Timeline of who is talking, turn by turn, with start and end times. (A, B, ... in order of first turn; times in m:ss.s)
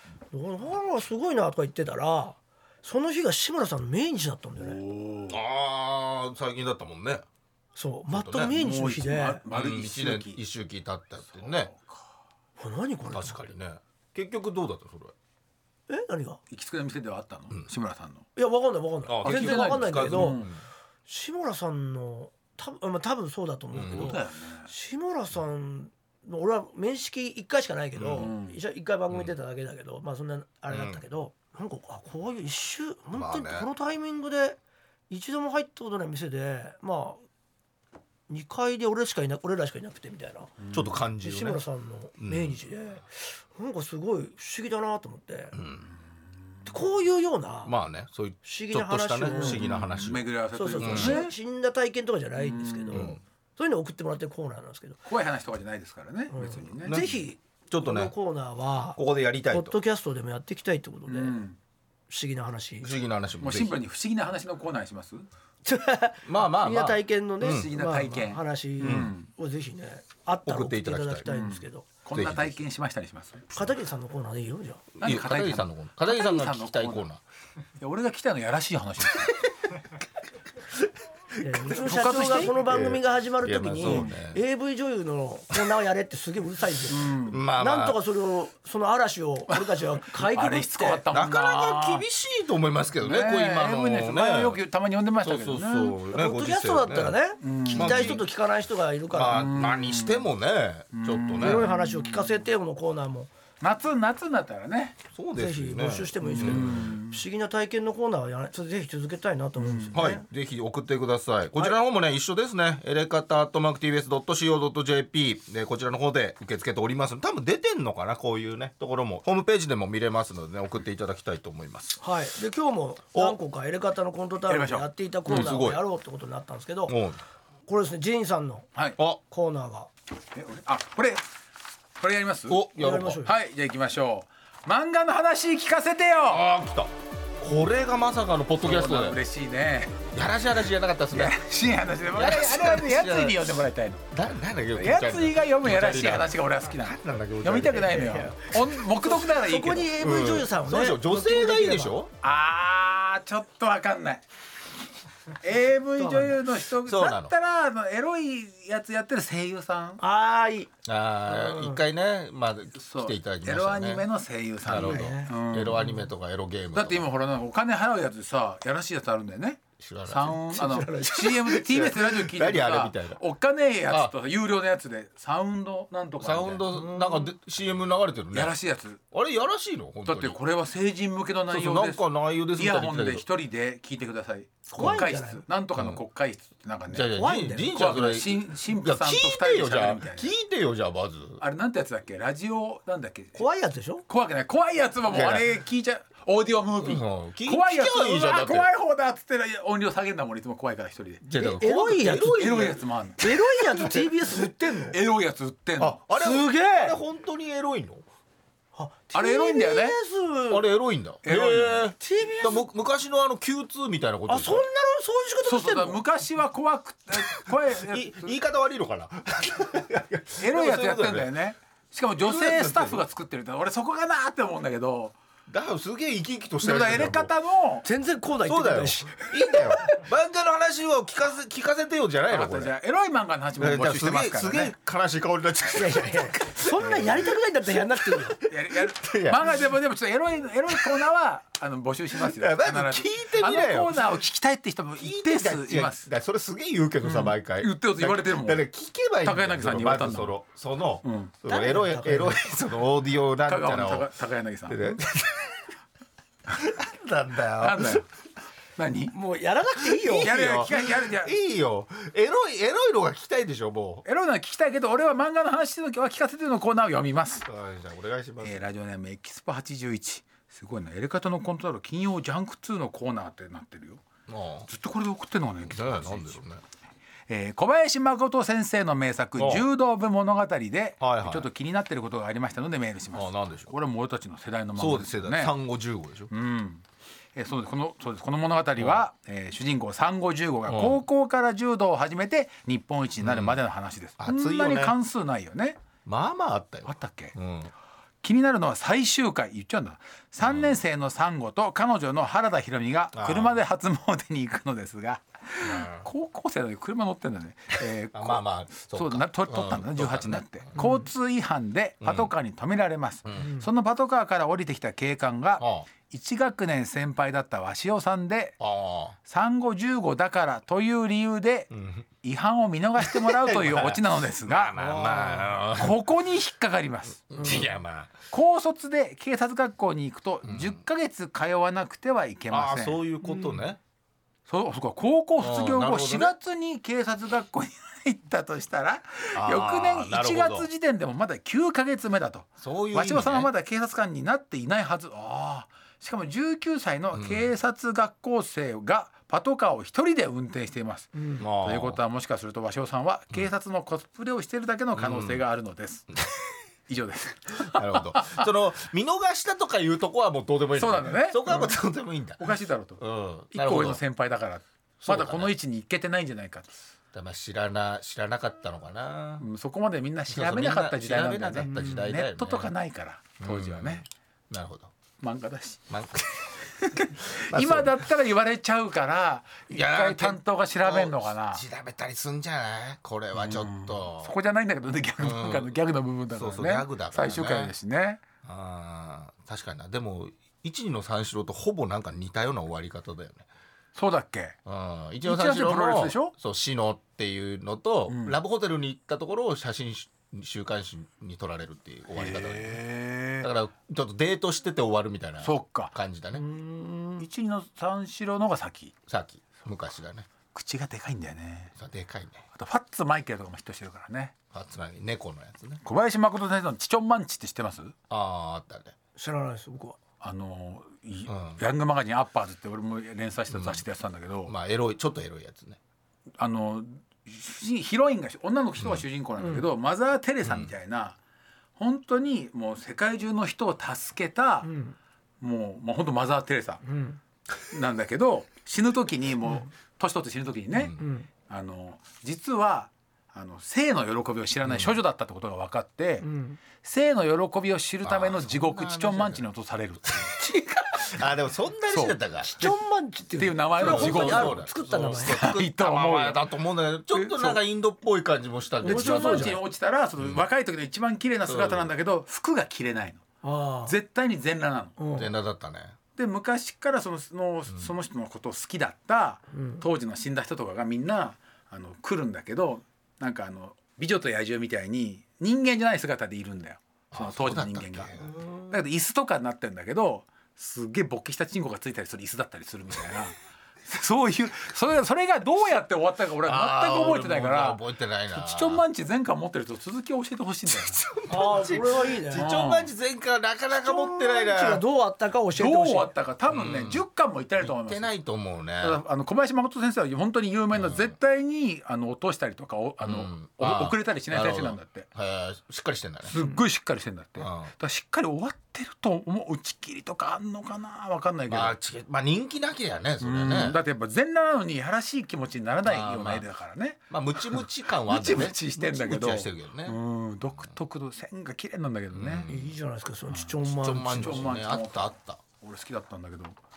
0:00.3-0:04.8 A
0:04.6-0:05.4 B
0:05.3-0:07.2 C
0:07.8-0:09.4 A
0:08.1-0:08.6 C
0:08.5-0:10.4 B
0:09.5-0:11.7 C
0:11.2-0:12.0 B
0:12.6-0:13.4 A
0:13.1-0:15.1 C
0:15.9-0:16.4 A
0:16.5-0:18.2 B
0:18.4-0:20.4 A
0:19.1-0:20.6 C
0:19.2-0:20.5 B
0:21.1-0:34.6 A
0:23.7-0:24.2 C
0:23.8-0:24.7 B
0:28.0-0:28.3 C
0:28.2-0:28.6 B
0:30.7-0:31.0 C
0:33.1-0:33.7 C
0:35.1-0:37.2 A
0:38.3-0:40.6 A
0:40.6-0:41.0 B
0:40.7-0:41.6 C
0:41.2-0:45.6 A
0:42.2-0:42.6 C
0:45.5-0:45.9 C
0:46.7-0:47.7 A
0:47.6-0:50.3 C
0:48.4-0:49.6 A
0:49.3-0:51.3 B
0:50.5-0:55.0 A
0:50.8-0:51.2 C
0:52.4-0:53.2 B
0:52.9-0:53.2 C
0:55.1-0:57.0 B
0:56.3-0:59.0 A
0:56.8-0:58.1 C
0:59.0-0:59.8 C
0:59.5-1:01.4 A
1:01.1-1:01.6 B
1:02.1-1:02.9 A
1:02.8-1:03.8 C
1:03.4-1:05.3 B
1:05.6-1:11.9 A
1:06.2-1:07.7 C
1:07.4-1:09.3 B
1:08.8-1:09.1 C
1:10.4-1:11.3 C
1:11.3-1:13.5 B
1:12.1-1:12.6 C
1:13.5-1:14.8 A
1:15.0-1:17.2 C
1:15.0-1:17.1 B
1:17.8-1:19.4 B
1:21.4-1:24.4 C
1:21.4-1:31.0 A
1:21.7-1:22.6 B
1:23.8-1:24.2 B
1:26.9-1:27.4 B
1:27.2-1:28.0 C
1:29.5-1:32.0 B
1:31.1-1:34.6 C
1:33.0-1:36.0 B
1:35.2-1:37.2 C
1:36.1-1:39.5 A
1:37.4-1:38.2 B
1:37.7-1:38.2 C
1:39.1-1:41.7 C
1:39.3-1:40.3 B
1:40.9-1:42.4 B
1:41.4-1:43.3 A
1:43.6-1:45.0 B
1:45.1-1:47.0 C
1:45.4-1:50.2 A
1:46.3-1:47.2 B
1:49.6-1:50.0 B
1:49.9-2:02.0 C
2:02.0-2:07.0 A
2:04.5-2:05.6 B
2:05.3-2:05.8 C
2:06.9-2:07.2 C
2:07.7-2:08.7 A
2:09.3-2:09.9 A
2:10.3-2:11.2 B
2:12.0-2:12.6 B
2:12.5-2:13.2 C
2:12.8-2:13.3 A
2:13.2-2:16.4 B
2:16.3-2:19.2 C
2:18.6-2:20.1 B
2:20.1-2:21.4 C
2:21.1-2:24.1 B
2:22.1-2:23.5 C
2:24.1-2:28.2 C
2:24.8-2:29.9 B
2:28.0-2:28.5 A
2:29.0-2:32.0 A
2:29.9-2:32.1 C
2:32.2-2:34.2 B
2:35.4-2:40.0 B
2:36.0-2:36.4 A
2:36.8-2:37.3 C
2:40.0-2:40.7 A
2:40.8-2:44.1 C
2:41.3-2:41.8 A
2:42.8-2:46.0 B
2:44.6-2:47.1 C
2:44.7-2:45.9 A
2:46.7-2:56.7 B
2:49.8-2:50.4 C
2:50.5-2:51.4 A
2:51.3-2:53.2 C
2:56.2-2:58.6 C
2:56.7-2:57.3 A
2:58.3-2:59.0 B
2:59.1-3:00.4 C
3:00.1-3:07.1 B
3:01.5-3:03.2 C
3:04.7-3:05.4 A
3:04.8-3:05.1 C
3:05.8-3:06.0 C
3:06.9-3:11.4 C
3:07.1-3:07.7 A
3:07.7-3:10.3 B
3:11.4-3:13.4 B
3:13.4-3:14.0 A
3:14.1-3:21.2 B
3:15.1-3:15.5 C
3:16.8-3:18.7 C
3:21.2-3:22.8 C
3:21.4-3:25.0 A
3:22.3-3:24.0 B
3:24.9-3:26.0 B
3:25.8-3:28.0 C
3:26.2-3:27.0 A
3:28.8-3:30.7 A
3:29.1-3:30.0 B
3:30.5-3:34.7 C
3:31.2-3:31.9 B
3:32.0-3:32.7 A
3:34.3-3:36.0 A
3:35.4-3:38.3 B
3:37.8-3:41.3 C
3:40.4-3:45.2 B
3:42.2-3:43.0 C
3:45.5-3:47.3 C
3:46.6-3:47.8 B
3:47.8-3:50.0 A
3:48.4-3:52.7 C
3:52.3-3:54.7 B
3:53.6-3:57.3 C
3:55.8-3:58.4 A
3:56.8-3:57.2 B
3:58.1-3:59.6 C
3:58.5-4:06.1 B
4:00.7-4:01.0 C
4:02.1-4:04.2 C
4:05.0-4:14.1 C
4:07.0-4:08.6 B
4:09.2-4:10.4 B
4:11.0-4:11.3 B
4:11.5-4:12.4 A
4:13.5-4:15.0 B
4:14.7-4:15.7 C
4:16.5-4:18.0 C
4:17.6-4:18.1 B
4:18.8-4:19.2 B
4:19.1-4:20.4 A
4:20.0-4:24.0 C
4:20.1-4:21.3 B
4:24.0-4:27.5 B
4:27.4-4:28.6 C
4:28.4-4:34.0 B
4:34.3-4:34.7 C
4:34.7-4:36.4 B
4:35.7-4:36.6 C
4:37.3-4:45.5 B
4:39.4-4:39.7 C
4:41.0-4:41.5 C
4:43.1-4:43.7 C
4:44.8-4:46.3 C
4:46.3-4:46.8 B
4:47.4-4:55.8 B
4:48.8-4:49.0 C
4:50.7-4:51.0 C
4:53.2-4:53.6 C
4:54.2-4:55.0 C
4:56.1-4:57.7 C
4:56.9-4:57.4 B
4:58.2-5:18.6 B
5:00.4-5:00.8 C
5:03.1-5:03.6 C
5:05.6-5:06.1 C
5:08.1-5:10.8 C
5:10.8-5:11.0 A
5:12.0-5:12.3 C
5:13.4-5:13.7 A
5:15.6-5:15.9 C
5:18.6-5:19.2 C
5:19.3-5:21.7 B
5:21.7-5:22.0 C
5:22.2-5:25.2 B
5:23.0-5:26.0 C
5:24.8-5:25.4 A
5:25.7-5:27.6 B
5:27.3-5:28.2 C
5:28.3-5:33.0 B
5:30.4-5:30.8 C
5:32.5-5:33.8 C
5:34.5-5:56.1 B
5:35.4-5:36.4 C
5:39.4-5:40.7 C
5:42.6-5:43.5 C
5:47.1-5:47.5 C
5:51.4-5:52.0 C
5:55.0-5:55.4 C
5:56.9-5:58.5 B
5:57.6-6:04.0 C
6:00.8-6:01.8 B
6:02.4-6:03.0 B
6:03.5-6:06.8 B
6:05.0-6:05.5 C
6:07.1-6:09.4 C
6:09.4-6:14.0 B
6:10.3-6:12.7 C
6:11.7-6:12.0 A
6:13.4-6:14.9 C
6:15.2-6:15.9 B
6:15.9-6:16.5 C
6:16.6-6:21.6 B
6:17.4-6:18.0 C
6:19.7-6:24.4 C
6:23.3-6:28.2 B
6:25.2-6:25.7 C
6:26.3-6:27.7 C
6:28.4-6:33.4 C
6:34.0-6:34.6 B
6:34.7-6:42.8 C
6:35.2-6:36.3 B
6:38.1-6:38.4 B
6:42.1-6:43.5 B
6:43.4-6:46.4 C
6:45.4-6:45.9 B
6:46.3-6:47.3 A
6:47.2-6:48.9 B
6:49.1-6:50.3 C
6:50.5-6:51.7 B
6:51.8-6:52.4 C
6:52.6-6:54.4 B
6:54.5-6:55.8 C
6:55.8-6:58.0 B
6:58.1-6:59.0 C
6:59.2-7:00.0 A
7:00.2-7:04.5 B
7:01.3-7:01.6 C
7:03.5-7:03.8 C
7:04.5-7:05.8 C
7:06.4-7:11.2 B
7:08.8-7:09.0 C
7:09.4-7:09.7 A
7:10.4-7:10.7 C
7:11.8-7:14.7 B
7:14.6-7:15.0 A
7:15.4-7:16.8 B
7:16.8-7:17.2 A
7:17.7-7:31.3 B
7:20.8-7:21.0 C
7:21.0-7:21.3 A
7:24.6-7:25.0 C
7:26.2-7:26.6 A
7:28.0-7:29.4 C
7:30.1-7:30.3 C
7:31.0-7:32.6 C
7:31.9-7:32.8 B
7:32.4-7:35.4 A
7:33.4-7:36.4 B
7:33.8-7:39.6 C
7:37.1-7:37.6 B
7:38.8-7:39.6 A
7:38.8-7:43.2 B
7:40.2-7:40.4 C
7:41.5-7:41.9 C
7:43.4-7:44.0 A
7:43.9-7:45.0 B
7:45.0-7:45.3 A
7:45.1-7:46.0 C
7:46.2-8:07.8 B
7:49.5-7:49.8 A
7:57.1-7:58.6 C
8:06.4-8:08.8 C
8:08.3-8:11.0 B
8:10.7-8:14.8 C
8:11.3-8:12.5 A
8:12.3-8:12.9 B
8:13.7-8:16.1 A
8:15.6-8:18.1 B
8:16.5-8:17.0 C
8:17.6-8:19.0 C
8:18.8-8:25.1 B
8:20.7-8:21.1 C
8:23.0-8:26.4 C
8:26.2-8:31.8 B
8:27.4-8:27.7 C
8:31.5-8:33.8 C
8:33.2-8:42.5 B
8:35.8-8:36.4 C
8:37.1-8:40.0 C
8:42.1-8:42.7 C
8:42.5-8:44.5 A
8:43.7-8:45.4 C
8:44.1-8:46.6 B